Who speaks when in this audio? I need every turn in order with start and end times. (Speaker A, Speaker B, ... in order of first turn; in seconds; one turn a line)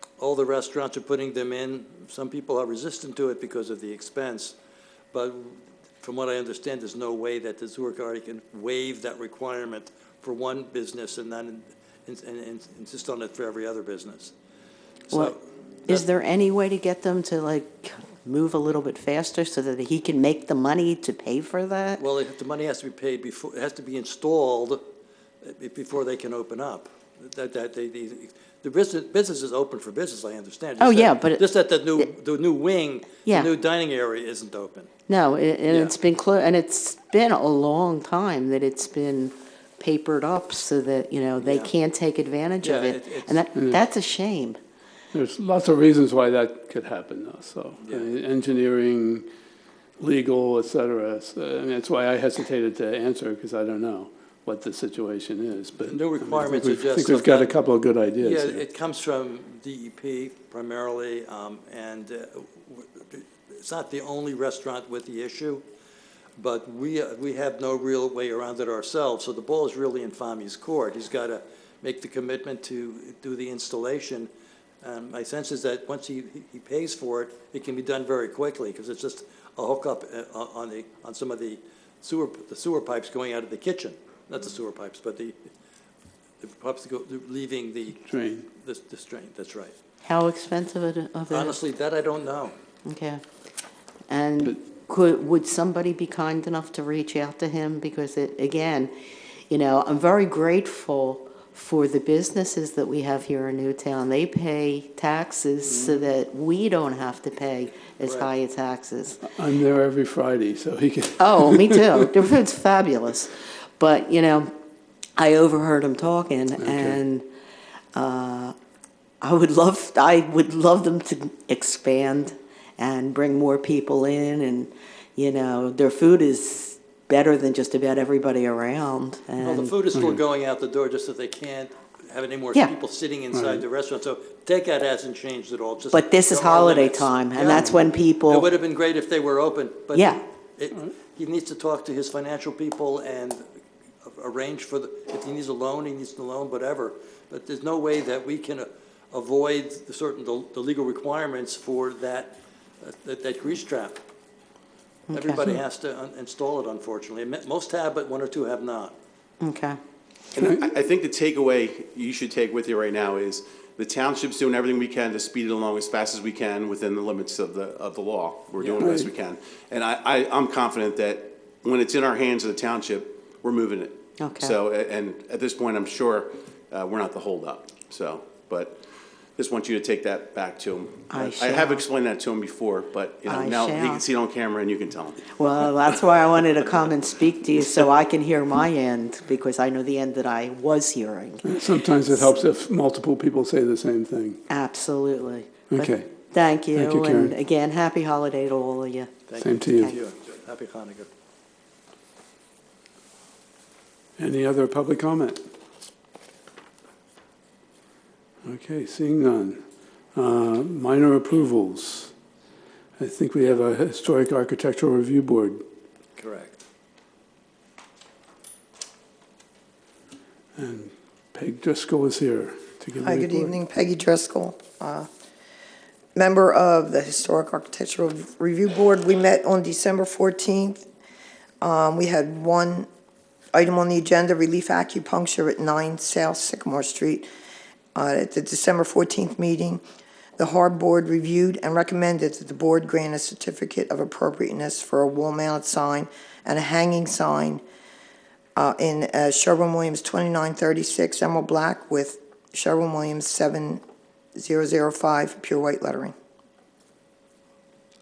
Speaker A: 0.2-4.5
Speaker A: 5.1-14.3
Speaker A: 15.1-16.1
Speaker B: 15.9-22.0
Speaker A: 22.0-24.8
Speaker A: 25.4-34.9
Speaker B: 30.8-31.5
Speaker B: 33.2-33.5
Speaker B: 35.1-44.6
Speaker A: 35.7-36.0
Speaker A: 41.4-41.7
Speaker A: 42.6-43.5
Speaker C: 43.5-43.8
Speaker C: 45.1-49.3
Speaker A: 47.8-48.1
Speaker C: 50.0-58.6
Speaker A: 55.8-57.5
Speaker A: 58.2-65.7
Speaker A: 66.4-74.3
Speaker A: 74.8-85.5
Speaker A: 86.4-89.7
Speaker C: 88.0-88.5
Speaker B: 90.0-91.6
Speaker A: 91.3-92.6
Speaker B: 92.8-93.2
Speaker B: 94.1-98.9
Speaker B: 99.5-109.2
Speaker A: 108.0-108.3
Speaker C: 109.2-112.2
Speaker B: 111.2-114.5
Speaker B: 115.2-117.3
Speaker C: 116.6-117.0
Speaker B: 117.9-118.5
Speaker B: 119.2-129.7
Speaker A: 129.4-143.4
Speaker C: 129.9-130.2
Speaker C: 133.3-133.6
Speaker B: 135.9-138.5
Speaker B: 139.9-140.2
Speaker A: 144.0-154.0
Speaker B: 155.1-155.5
Speaker A: 155.1-158.9
Speaker B: 159.4-159.8
Speaker D: 160.3-178.8
Speaker C: 160.4-160.7
Speaker A: 168.6-168.9
Speaker C: 168.8-169.1
Speaker B: 174.2-174.6
Speaker D: 179.4-185.3
Speaker B: 181.1-181.8
Speaker B: 183.3-184.0
Speaker B: 185.3-191.5
Speaker C: 191.4-194.4
Speaker B: 194.5-199.2
Speaker C: 195.7-196.1
Speaker C: 196.7-197.4
Speaker A: 199.3-201.1
Speaker C: 199.4-200.0
Speaker C: 204.2-205.4
Speaker C: 208.4-209.6
Speaker C: 210.2-212.1
Speaker C: 213.0-215.6
Speaker A: 216.2-216.6
Speaker C: 220.6-223.5
Speaker E: 223.0-225.1
Speaker E: 226.2-230.8
Speaker E: 231.6-232.9
Speaker E: 233.5-237.3
Speaker E: 237.9-239.8
Speaker E: 240.4-247.6
Speaker E: 248.6-253.8
Speaker E: 254.4-256.1